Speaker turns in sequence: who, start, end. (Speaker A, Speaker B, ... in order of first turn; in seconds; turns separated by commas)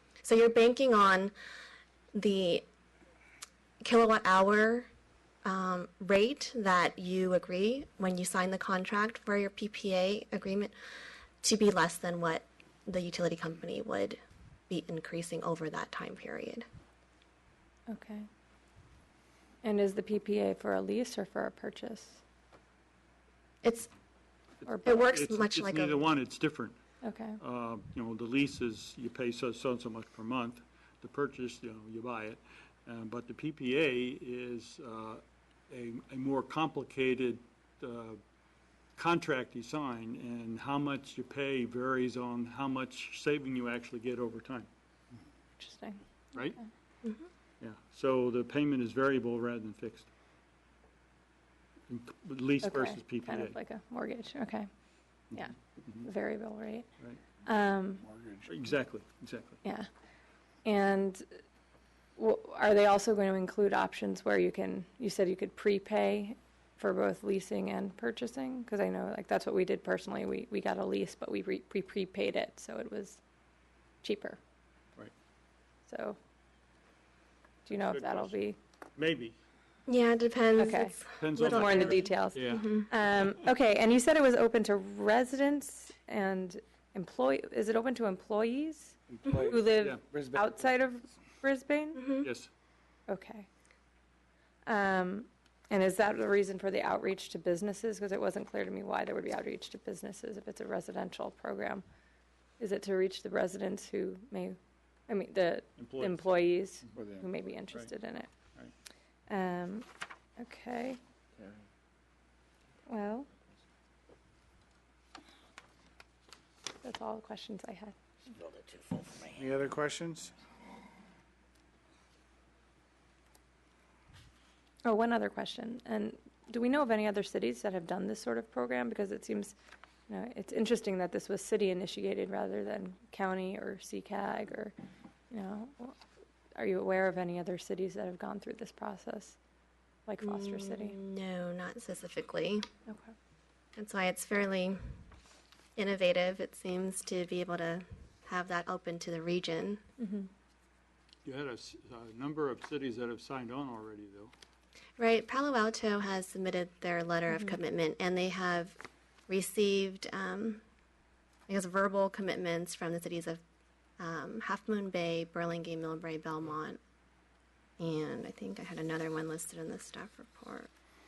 Speaker A: 0.2-1.3, Speaker A: 2.1-2.6, Speaker A: 3.8-4.9, Speaker A: 5.5-10.7, Speaker A: 11.4-16.6, Speaker B: 17.9-18.3, Speaker B: 19.6-22.2, Speaker A: 23.6-23.9, Speaker C: 24.6-26.8, Speaker A: 24.8-26.1, Speaker B: 27.0-27.4, Speaker C: 27.4-38.2, Speaker C: 39.0-44.7, Speaker B: 45.6-46.6, Speaker C: 47.6-50.1, Speaker C: 51.9-53.6, Speaker B: 52.6-54.7, Speaker B: 55.3-56.9, Speaker B: 57.5-58.0, Speaker D: 58.0-58.7, Speaker C: 58.5-59.6, Speaker B: 60.6-61.2, Speaker B: 62.2-73.2, Speaker B: 74.0-74.4, Speaker B: 75.9-76.2, Speaker B: 77.7-78.6, Speaker C: 77.7-79.3, Speaker A: 79.9-82.9, Speaker B: 80.6-92.2, Speaker C: 81.2-82.6, Speaker D: 89.1-90.7, Speaker A: 92.0-92.3, Speaker C: 92.2-92.5, Speaker B: 93.1-93.5, Speaker B: 94.7-101.8, Speaker B: 102.6-104.6, Speaker B: 105.1-108.3, Speaker C: 105.8-106.9, Speaker D: 107.0-107.4, Speaker B: 109.3-109.8, Speaker B: 110.4-111.0, Speaker B: 112.9-113.3, Speaker B: 116.8-117.9, Speaker D: 119.3-120.3, Speaker B: 124.8-129.6, Speaker B: 130.1-134.7, Speaker B: 135.3-136.0, Speaker B: 136.6-139.4, Speaker B: 140.1-141.0, Speaker A: 140.2-142.7, Speaker B: 142.9-143.1, Speaker A: 143.8-144.8, Speaker A: 145.8-149.8, Speaker B: 150.0-150.3, Speaker C: 151.2-154.3, Speaker A: 155.0-160.6, Speaker B: 157.3-157.6, Speaker A: 161.5-163.4, Speaker A: 164.0-166.8, Speaker A: 167.8-170.7